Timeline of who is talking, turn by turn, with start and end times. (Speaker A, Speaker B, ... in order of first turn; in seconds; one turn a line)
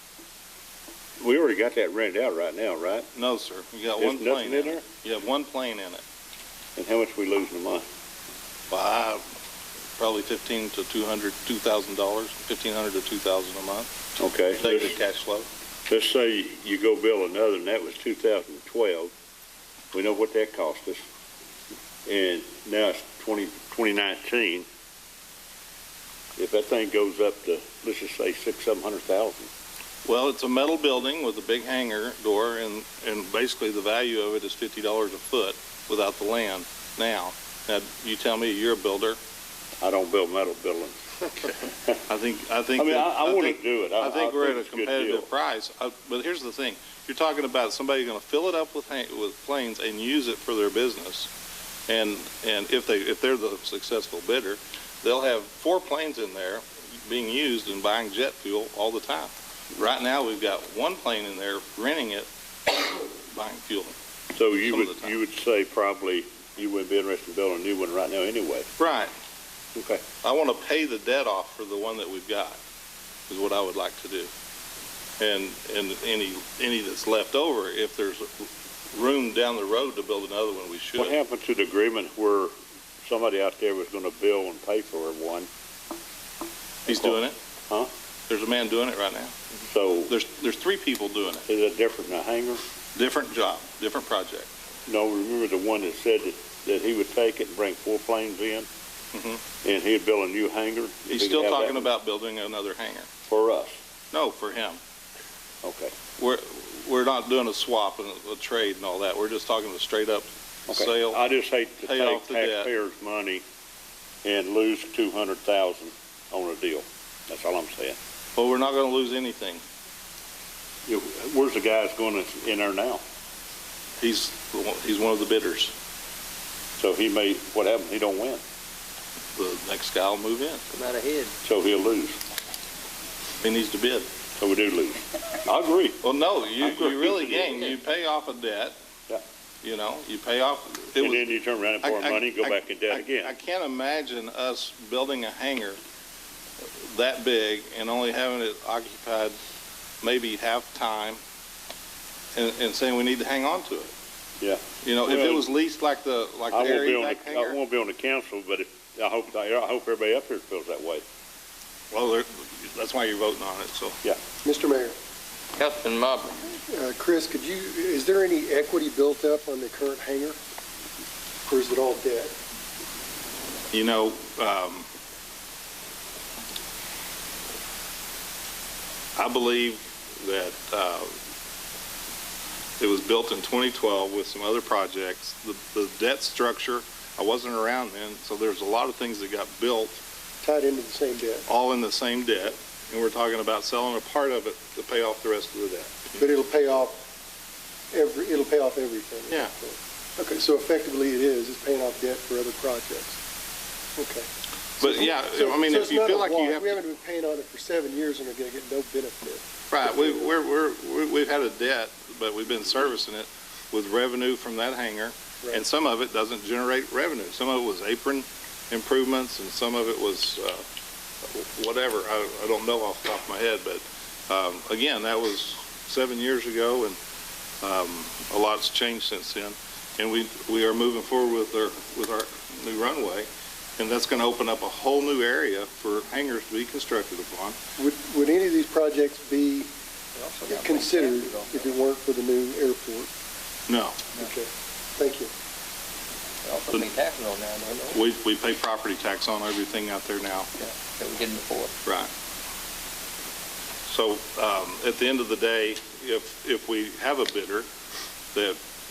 Speaker A: 1.2-3.1
Speaker B: 3.1-6.0
Speaker A: 4.0-4.8
Speaker A: 6.8-7.9
Speaker B: 8.7-9.2
Speaker B: 10.0-13.9
Speaker A: 14.2-14.9
Speaker B: 14.6-15.5
Speaker A: 15.9-19.1
Speaker A: 19.9-21.0
Speaker A: 22.1-24.7
Speaker A: 26.4-29.5
Speaker B: 30.1-39.2
Speaker A: 39.8-41.0
Speaker A: 41.7-42.0
Speaker B: 42.1-51.3
Speaker A: 42.8-45.3
Speaker B: 51.9-62.3
Speaker B: 62.9-64.0
Speaker A: 64.3-68.7
Speaker B: 64.6-65.2
Speaker B: 68.8-69.1
Speaker A: 69.8-70.0
Speaker B: 70.2-72.6
Speaker B: 73.3-74.3
Speaker B: 75.2-81.2
Speaker A: 81.0-82.5
Speaker A: 83.0-85.5
Speaker B: 86.9-87.4
Speaker A: 86.9-87.2
Speaker B: 88.3-89.4
Speaker A: 89.7-90.1
Speaker B: 90.1-91.5
Speaker A: 91.5-92.6
Speaker B: 93.0-94.5
Speaker A: 94.9-98.7
Speaker B: 99.1-99.4
Speaker A: 99.6-101.9
Speaker B: 101.1-103.1
Speaker A: 103.3-103.8
Speaker B: 104.1-104.8
Speaker A: 105.6-105.9
Speaker B: 106.2-111.2
Speaker A: 110.7-113.4
Speaker B: 111.8-112.7
Speaker A: 114.2-118.0
Speaker B: 118.4-119.6
Speaker A: 120.9-123.0
Speaker B: 124.0-125.8
Speaker A: 126.8-128.4
Speaker B: 129.4-130.6
Speaker C: 130.7-131.3
Speaker A: 131.4-132.2
Speaker B: 133.4-134.1
Speaker A: 134.4-136.0
Speaker B: 136.0-138.8
Speaker A: 136.6-137.6
Speaker B: 139.6-145.8
Speaker A: 140.9-143.3
Speaker B: 146.8-149.4
Speaker B: 150.0-151.2
Speaker B: 152.3-153.9
Speaker A: 154.4-155.5
Speaker B: 154.8-157.6
Speaker A: 156.5-161.1
Speaker B: 161.9-164.0
Speaker D: 164.4-165.0
Speaker C: 165.6-166.4
Speaker D: 166.7-170.4
Speaker D: 171.5-172.3
Speaker B: 173.7-174.9
Speaker B: 179.2-181.1
Speaker B: 182.8-190.0
Speaker D: 190.4-191.5
Speaker B: 191.5-196.2
Speaker D: 196.2-197.0
Speaker D: 197.9-203.2
Speaker D: 204.0-204.3
Speaker B: 204.8-206.8
Speaker D: 204.8-210.3
Speaker B: 209.7-220.7
Speaker B: 221.3-227.0
Speaker B: 227.6-237.6
Speaker D: 237.8-239.7
Speaker C: 240.2-241.7
Speaker D: 240.5-243.1
Speaker B: 243.7-244.0
Speaker D: 244.2-245.3
Speaker C: 246.4-248.0
Speaker B: 247.9-250.5
Speaker C: 250.6-251.7
Speaker B: 251.8-252.1
Speaker B: 253.9-257.7